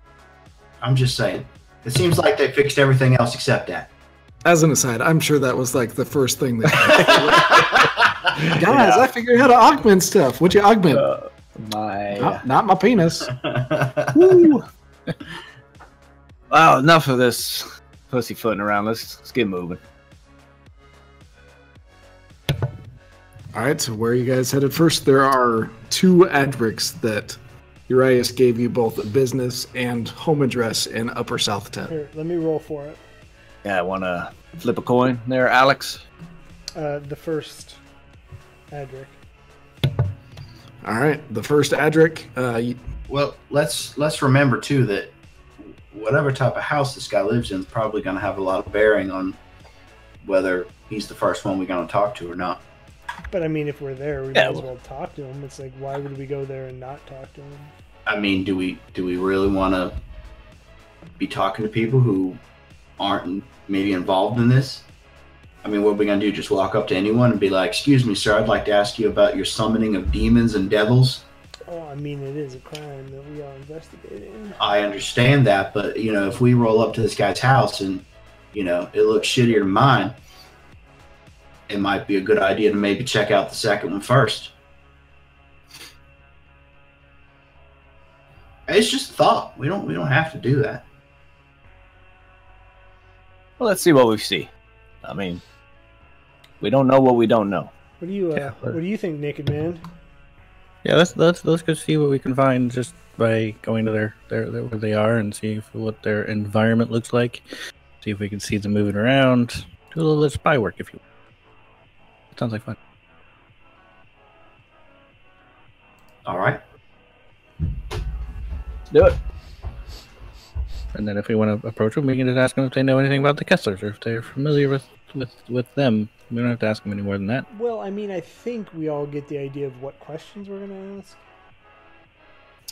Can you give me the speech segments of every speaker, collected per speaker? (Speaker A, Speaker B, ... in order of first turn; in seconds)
Speaker A: 0.8-3.9, 13.3-14.5, 43.1-45.1, 45.9-49.4, 50.2-52.6, 58.0-60.0, 61.2-62.4, 63.0-64.9, 65.6-71.2, 74.6-80.1, 81.7-84.5, 88.7-90.8, 116.2-116.6
Speaker B: 4.4-7.8, 8.5-11.1, 12.2-13.3, 23.5-31.9, 40.8-42.8
Speaker C: 8.3-9.1, 10.9-12.4, 14.1-14.6, 16.5-19.8, 33.6-36.0, 54.3-54.6, 93.6-94.5, 95.0-95.4, 96.6-97.7, 118.9-119.2
Speaker D: 31.9-33.0, 36.7-37.8, 38.7-39.2, 53.3-57.7, 71.7-74.6, 98.0-99.8, 127.5-131.2
Speaker E: 98.5-98.8, 100.8-107.4, 108.0-111.0, 112.3-112.8, 120.9-127.5